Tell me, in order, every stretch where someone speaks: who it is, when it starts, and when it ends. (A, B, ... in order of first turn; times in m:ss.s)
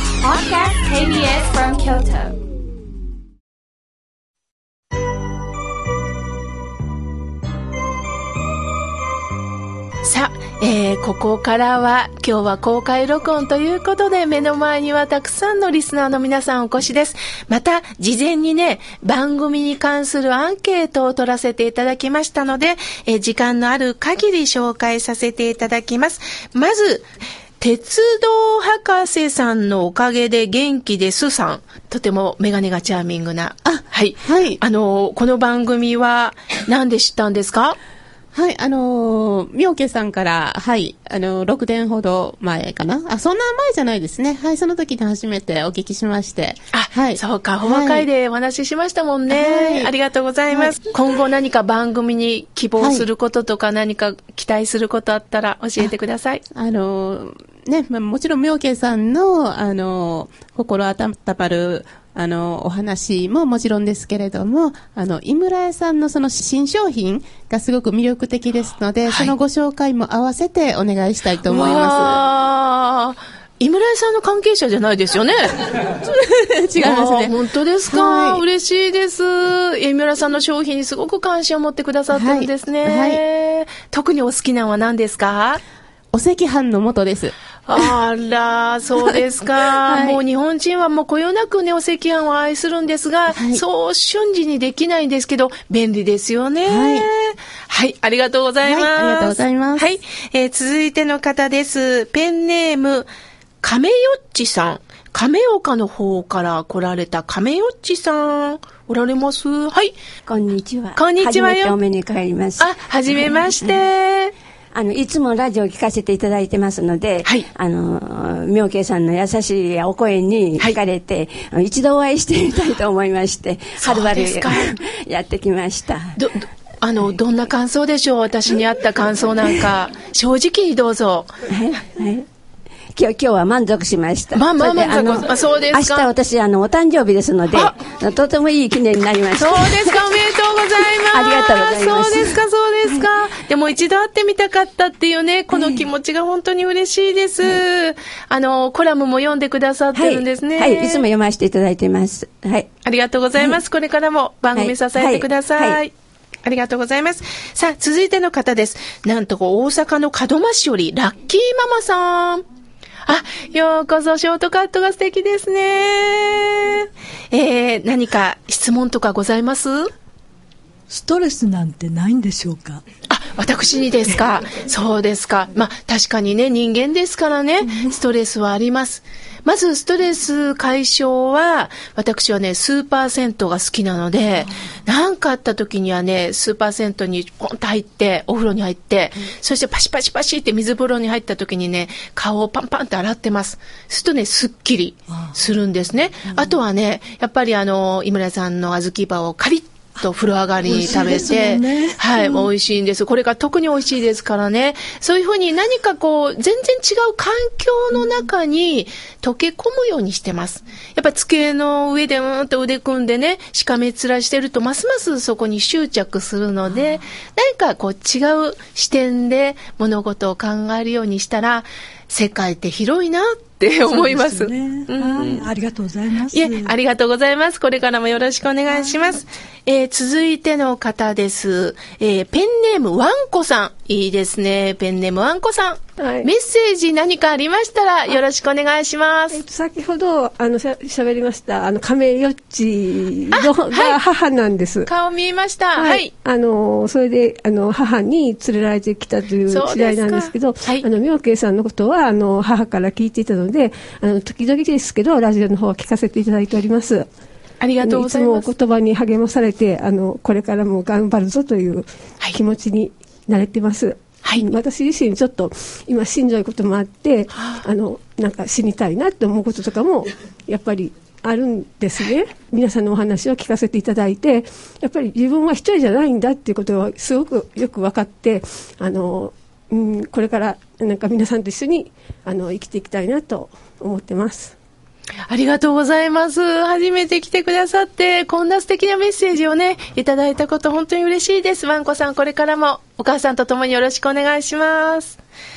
0:00.2-0:02.4 A
0:10.0-0:27.1 B
0:27.6-0:37.8 B
0:33.6-0:34.6 C
0:38.3-0:48.1 C
0:46.7-0:56.4 B
0:49.3-0:49.9 C
0:52.8-0:53.1 C
0:56.5-1:12.2 C
1:09.0-1:09.3 B
1:11.4-1:15.6 B
1:16.1-1:17.4 C
1:16.8-1:25.6 B
1:17.9-1:18.4 C
1:22.1-1:23.2 C
1:26.1-1:27.3 C
1:27.7-1:43.1 B
1:29.8-1:30.2 C
1:33.3-1:33.6 C
1:36.6-1:37.1 C
1:38.6-1:39.9 C
1:43.6-1:49.9 B
1:50.3-1:53.7 D
1:50.9-1:51.8 B
1:52.6-1:54.3 B
1:54.7-2:06.2 D
2:03.8-2:04.7 B
2:06.2-2:11.3 B
2:11.5-2:12.2 D
2:12.9-2:20.0 D
2:14.3-2:16.1 B
2:19.4-2:31.0 B
2:21.0-2:23.0 D
2:25.5-2:25.8 D
2:29.9-2:32.7 D
2:32.8-2:35.9 B
2:34.5-2:35.8 D
2:36.4-2:42.4 B
2:43.1-2:49.9 B
2:50.9-2:52.8 A
2:53.1-3:45.5 B
3:20.7-3:21.6 A
3:43.9-3:46.4 A
3:46.3-3:59.4 B
3:56.0-3:56.3 E
3:59.3-4:04.9 E
4:03.3-4:04.0 B
4:04.8-4:06.1 B
4:05.7-4:17.1 E
4:09.5-4:10.8 B
4:17.6-4:18.5 B
4:17.8-4:44.5 E
4:27.3-4:27.6 B
4:45.3-4:55.2 B